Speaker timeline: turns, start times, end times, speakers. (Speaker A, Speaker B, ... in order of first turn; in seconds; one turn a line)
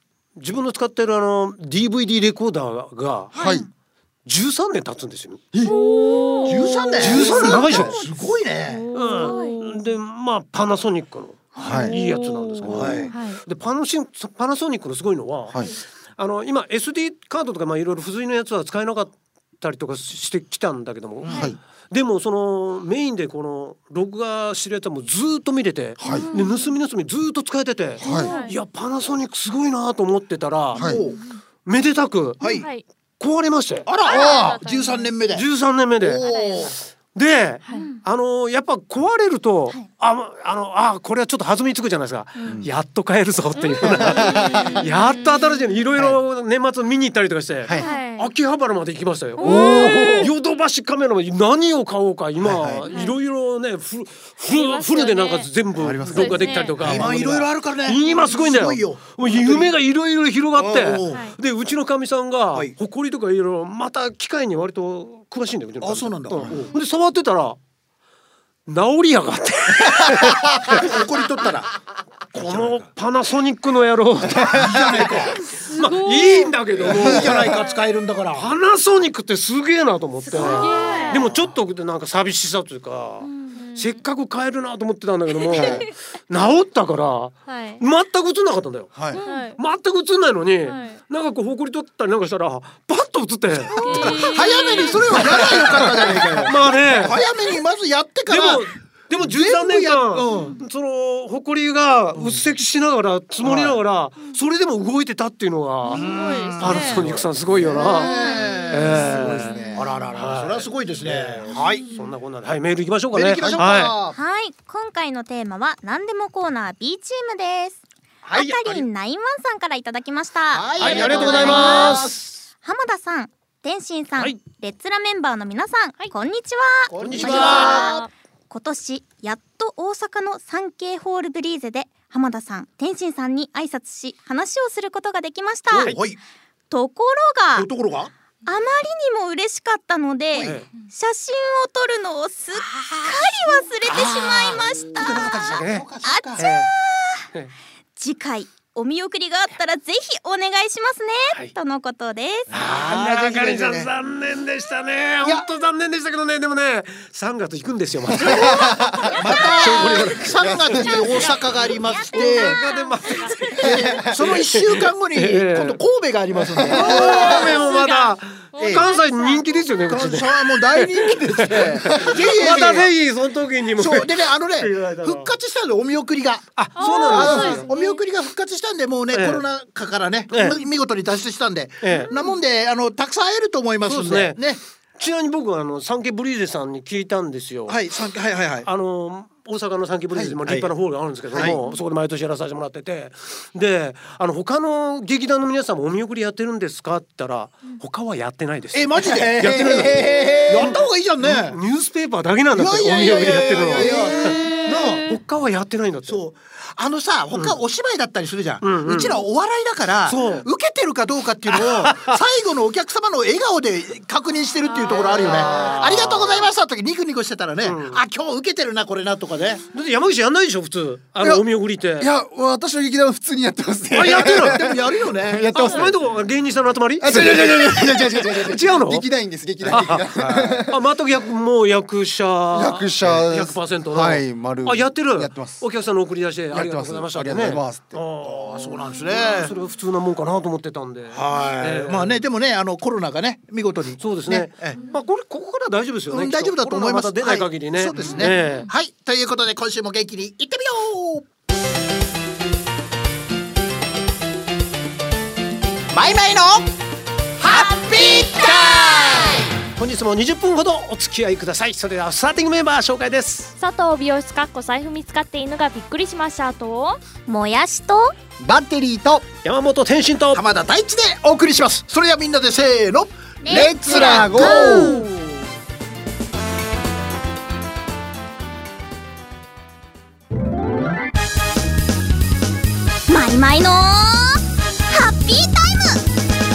Speaker A: 0.4-3.3
Speaker B: 3.3-3.7
Speaker C: 3.4-3.7
Speaker A: 4.2-5.5
Speaker D: 5.6-7.2
Speaker B: 5.6-8.1
Speaker E: 6.5-8.9
Speaker A: 7.0-8.0
Speaker D: 8.6-10.0
Speaker A: 8.9-15.6
Speaker B: 9.2-9.6
Speaker C: 11.6-12.0
Speaker D: 11.6-13.4
Speaker C: 12.6-13.1
Speaker E: 12.7-13.1
Speaker C: 15.5-15.7
Speaker A: 16.1-30.9
Speaker E: 21.2-21.5
Speaker C: 21.3-21.6
Speaker C: 26.0-26.3
Speaker B: 26.1-26.6
Speaker D: 26.1-26.5
Speaker C: 28.0-28.3
Speaker B: 28.0-28.4
Speaker D: 28.0-28.5
Speaker C: 30.8-31.0
Speaker E: 30.8-31.2
Speaker B: 30.9-31.4
Speaker A: 31.6-32.4
Speaker E: 32.4-32.7
Speaker D: 32.4-32.8
Speaker A: 33.2-33.9
Speaker E: 33.9-35.5
Speaker D: 34.0-35.1
Speaker B: 34.1-34.4
Speaker A: 35.3-36.2
Speaker E: 36.0-36.8
Speaker B: 36.2-36.7
Speaker A: 37.0-67.6
Speaker B: 37.7-38.0
Speaker C: 42.4-42.7
Speaker B: 43.8-44.8
Speaker D: 44.0-45.8
Speaker C: 44.1-44.8
Speaker B: 47.8-48.0
Speaker D: 47.8-48.3
Speaker B: 49.4-49.8
Speaker D: 49.4-50.3
Speaker C: 49.4-50.3
Speaker C: 52.4-52.9
Speaker D: 52.8-53.1
Speaker D: 54.5-56.8
Speaker C: 55.8-57.1
Speaker E: 56.8-59.8
Speaker E: 60.5-61.3
Speaker D: 61.1-61.4
Speaker E: 65.8-66.7
Speaker A: 68.7-71.0
Speaker C: 70.0-70.8
Speaker E: 70.7-71.7
Speaker A: 72.3-77.4
Speaker C: 72.3-72.7
Speaker C: 74.3-75.2
Speaker E: 74.4-75.4
Speaker D: 75.6-76.6
Speaker E: 76.8-78.5
Speaker C: 77.0-77.6
Speaker A: 78.3-97.2
Speaker D: 80.3-81.3
Speaker B: 80.3-81.2
Speaker E: 81.1-81.5
Speaker B: 83.2-83.6
Speaker D: 83.5-84.0
Speaker B: 85.5-85.9
Speaker D: 87.5-87.8
Speaker C: 88.9-89.2
Speaker D: 89.1-89.6
Speaker D: 90.7-91.0
Speaker E: 93.7-100.6
Speaker D: 93.8-95.3
Speaker C: 96.1-96.4
Speaker A: 98.3-108.1
Speaker E: 102.1-102.5
Speaker E: 103.4-103.8
Speaker D: 105.9-107.1
Speaker E: 105.9-111.9
Speaker B: 107.8-108.9
Speaker D: 108.0-109.7
Speaker A: 108.7-114.0
Speaker C: 108.7-109.9
Speaker E: 113.1-114.2
Speaker B: 114.1-117.8
Speaker E: 118.2-118.8
Speaker B: 118.3-136.0
Speaker A: 118.3-118.8
Speaker E: 120.5-122.1
Speaker A: 120.8-122.4
Speaker E: 126.9-128.0
Speaker A: 127.0-127.9
Speaker D: 127.3-128.1
Speaker A: 135.7-136.0
Speaker E: 135.8-136.2
Speaker B: 136.7-137.7
Speaker E: 137.5-138.1
Speaker B: 138.4-147.2
Speaker E: 140.3-140.7
Speaker A: 140.4-140.7
Speaker E: 142.5-146.5
Speaker A: 143.8-146.7
Speaker B: 148.0-152.5
Speaker A: 152.5-158.8
Speaker E: 152.5-153.9
Speaker E: 155.2-155.5
Speaker C: 158.1-159.2
Speaker E: 158.3-162.7
Speaker B: 158.4-159.8
Speaker A: 159.4-161.4
Speaker C: 160.2-161.1
Speaker B: 160.8-164.1
Speaker A: 162.1-165.8
Speaker E: 163.5-167.7
Speaker C: 163.6-164.2
Speaker A: 166.6-175.3
Speaker C: 166.6-167.3
Speaker D: 166.8-169.8
Speaker E: 168.6-168.9
Speaker E: 169.9-172.9
Speaker C: 171.9-172.2
Speaker E: 173.8-184.6
Speaker A: 176.6-177.7
Speaker D: 176.8-178.0
Speaker C: 177.2-177.5
Speaker A: 179.1-179.4
Speaker A: 180.3-180.6
Speaker A: 181.8-182.1
Speaker A: 183.8-187.8
Speaker E: 187.7-188.7
Speaker A: 188.6-206.2
Speaker E: 190.1-190.7
Speaker E: 191.3-191.6
Speaker E: 198.7-201.6
Speaker C: 199.7-200.6
Speaker E: 202.5-205.1
Speaker C: 203.8-204.1
Speaker D: 203.9-205.0
Speaker E: 206.0-219.6
Speaker A: 208.6-209.2
Speaker A: 210.1-210.5
Speaker A: 211.5-212.2
Speaker A: 214.8-216.5
Speaker A: 217.6-218.0
Speaker A: 219.7-222.1
Speaker C: 222.0-226.0
Speaker A: 223.9-224.6
Speaker E: 224.0-225.8
Speaker A: 225.5-229.1
Speaker D: 225.6-225.8
Speaker C: 227.0-230.8
Speaker A: 229.6-242.2
Speaker C: 232.5-235.6
Speaker C: 236.5-238.0
Speaker E: 238.2-239.5
Speaker E: 241.1-244.8
Speaker A: 244.0-248.7
Speaker E: 246.1-251.3
Speaker D: 248.3-248.6
Speaker E: 255.9-256.7
Speaker E: 257.4-259.5
Speaker B: 258.0-258.6
Speaker A: 259.7-263.5
Speaker D: 263.6-267.0
Speaker B: 267.2-268.1
Speaker C: 268.4-269.2
Speaker A: 269.4-270.4
Speaker E: 270.3-274.9
Speaker B: 273.4-275.1
Speaker C: 273.5-275.0
Speaker A: 274.2-274.9
Speaker B: 283.1-286.0